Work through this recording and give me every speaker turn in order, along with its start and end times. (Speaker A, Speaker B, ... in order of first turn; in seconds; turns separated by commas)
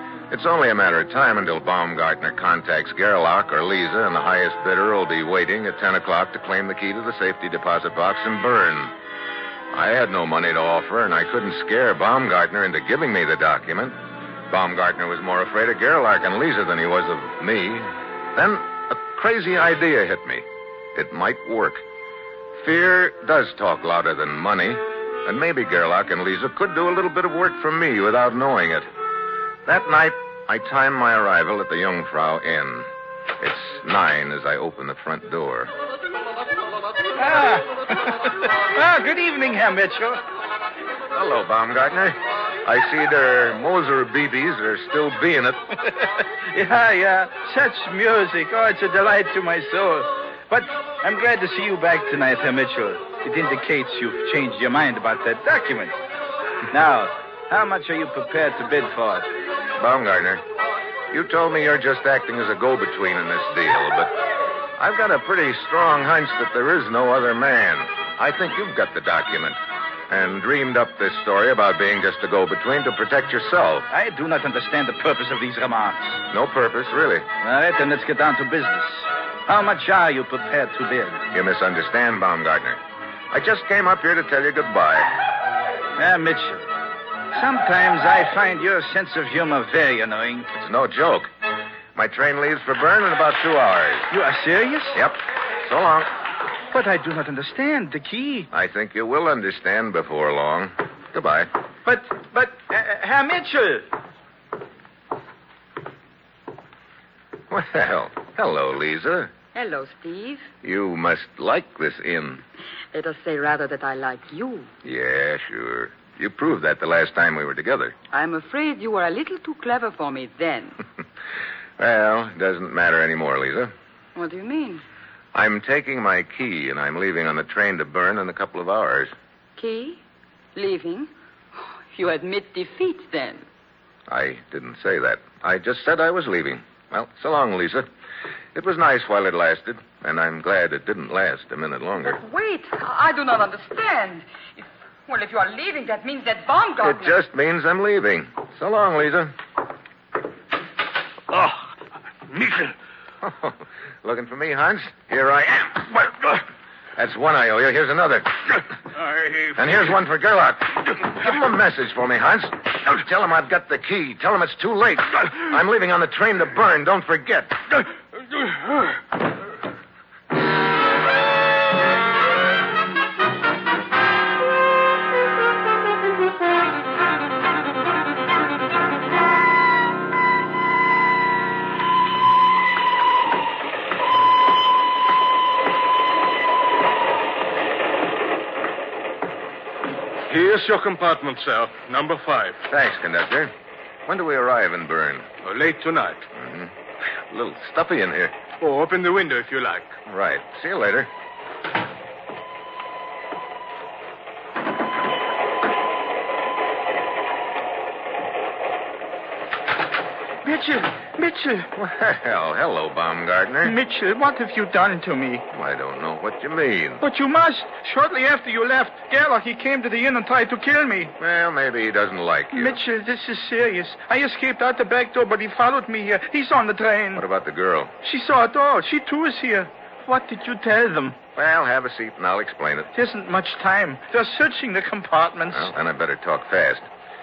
Speaker A: 0.3-8.9, Speaker A: 9.7-14.0, Speaker A: 14.5-21.8, Speaker A: 22.6-28.9, Speaker A: 29.6-32.9, Speaker A: 33.4-35.7, Speaker B: 37.1-40.2, Speaker A: 41.1-45.6, Speaker B: 46.5-56.0, Speaker B: 56.7-59.3, Speaker A: 59.8-60.4, Speaker A: 61.1-64.1, Speaker A: 64.8-69.6, Speaker A: 70.1-73.9, Speaker B: 73.9-76.2, Speaker A: 76.3-77.2, Speaker B: 77.4-81.2, Speaker A: 81.3-82.8, Speaker A: 83.3-85.1, Speaker B: 86.0-86.7, Speaker B: 87.3-90.5, Speaker A: 90.5-91.3, Speaker A: 91.9-94.1, Speaker B: 94.1-95.0, Speaker A: 94.9-96.1, Speaker B: 96.7-98.5, Speaker A: 98.5-101.5, Speaker B: 101.8-103.9, Speaker A: 107.5-109.3, Speaker C: 109.5-110.5, Speaker A: 110.6-112.4, Speaker C: 112.9-114.7, Speaker A: 114.8-117.9, Speaker C: 118.1-120.8, Speaker A: 121.8-123.7, Speaker C: 124.1-124.8, Speaker A: 125.3-129.1, Speaker C: 129.6-130.0, Speaker C: 130.5-133.4, Speaker A: 134.1-137.9, Speaker A: 138.5-142.2, Speaker C: 142.0-147.2, Speaker A: 146.8-149.3, Speaker A: 153.2-156.4, Speaker A: 156.9-158.6, Speaker A: 159.4-167.8, Speaker D: 190.3-192.5, Speaker A: 192.6-193.5, Speaker A: 194.1-195.3, Speaker D: 195.4-196.2, Speaker A: 196.3-196.7, Speaker A: 197.3-198.3, Speaker D: 198.6-199.9, Speaker A: 200.1-201.1, Speaker B: 210.4-211.7, Speaker A: 211.7-213.8, Speaker B: 213.6-215.4, Speaker A: 215.5-217.0, Speaker B: 217.0-221.1, Speaker A: 221.2-222.8, Speaker B: 222.5-227.2, Speaker A: 227.1-227.9, Speaker B: 228.0-231.2, Speaker A: 231.3-232.9, Speaker B: 232.9-235.7, Speaker A: 235.5-236.8